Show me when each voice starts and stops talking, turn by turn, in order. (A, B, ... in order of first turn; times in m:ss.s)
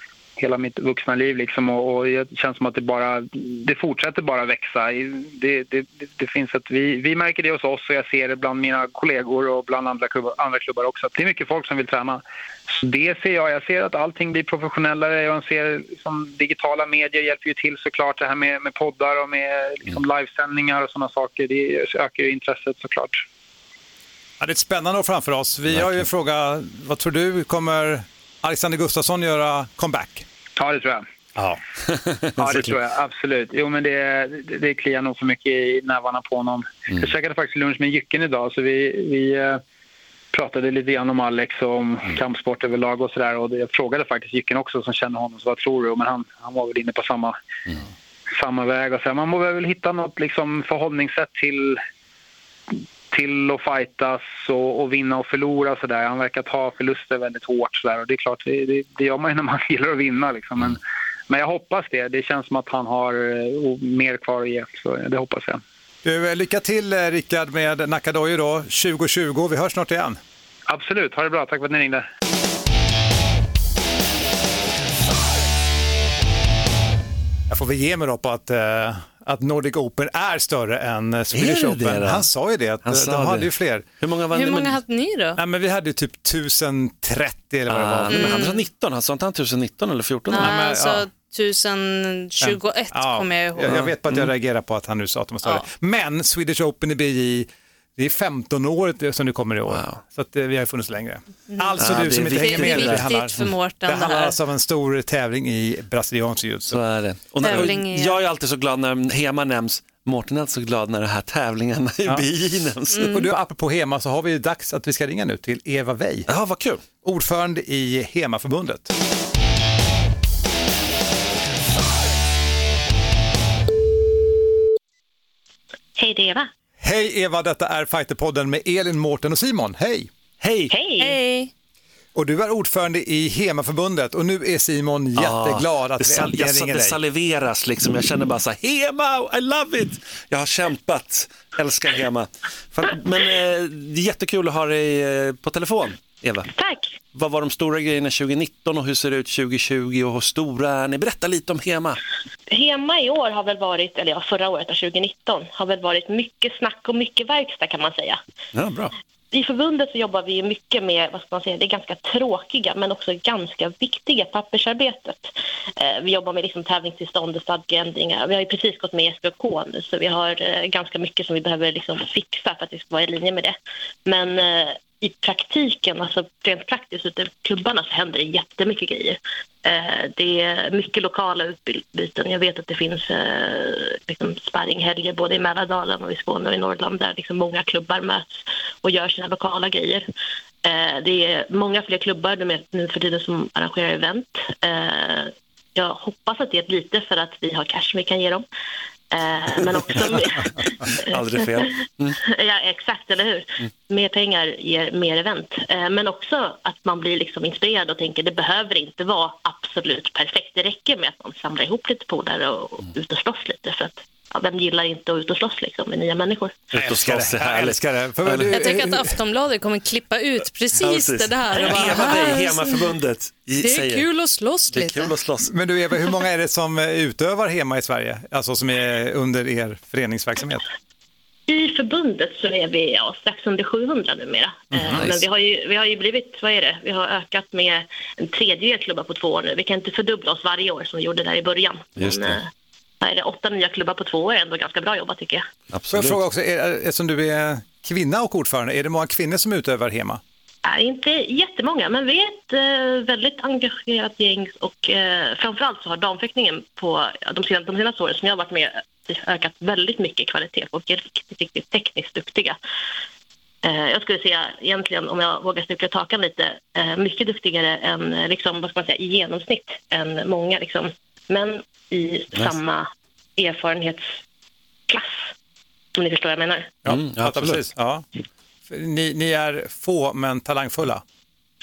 0:00.4-0:23.2 A
0:24.4-0:30.3 B
0:25.7-0:26.0 C
0:30.6-0:31.0 A
0:31.9-0:32.8 C
0:32.4-0:39.6 A
0:40.3-0:47.4 A
0:48.3-0:51.8 A
0:53.1-1:05.6 A
1:06.0-1:10.2 B
1:10.7-1:12.0 A
1:17.5-1:23.9 B
1:21.3-1:22.3 C
1:22.8-1:23.5 C
1:24.0-1:24.8 C
1:24.3-1:25.4 D
1:25.4-1:28.5 B
1:27.7-1:30.6 C
1:28.1-1:28.6 D
1:30.3-1:33.9 D
1:30.4-1:31.1 B
1:32.4-1:46.8 B
1:39.7-1:40.0 C
1:41.6-1:44.4 D
1:41.8-1:43.1 C
1:46.7-1:53.1 C
1:47.4-1:48.2 D
1:47.4-1:47.7 B
1:52.9-1:53.3 D
1:53.0-1:56.3 B
1:56.3-1:56.8 C
1:57.0-1:58.9 B
2:06.0-2:06.5 E
2:06.8-2:10.1 B
2:10.4-2:10.7 C
2:10.7-2:11.2 E
2:11.0-2:11.5 D
2:12.2-2:17.0 B
2:15.2-2:26.5 C
2:26.5-2:27.0 E
2:27.1-2:32.0 C
2:32.5-2:38.2 E
2:38.5-2:38.9 C
2:39.3-3:08.3 E
3:08.8-3:10.1 E
3:10.6-3:18.4 E
3:19.1-3:36.7 E
3:19.9-3:22.2 C
3:36.7-3:38.5 C
3:36.8-3:39.2 B
3:38.5-3:42.9 D
3:40.8-3:44.1 C
3:43.6-3:45.1 D
3:44.7-3:45.5 C
3:45.5-3:50.7 B
3:51.5-4:02.5 E
3:54.9-3:55.2 C
4:02.0-4:02.4 C
4:03.0-4:05.5 E
4:05.7-4:06.2 C
4:05.9-4:10.2 B
4:10.6-4:22.6 E
4:23.6-4:34.2 E
4:34.9-4:35.3 E
4:36.0-4:36.8 E
4:36.8-4:38.1 B
4:36.9-4:37.7 C
4:38.7-4:41.0 B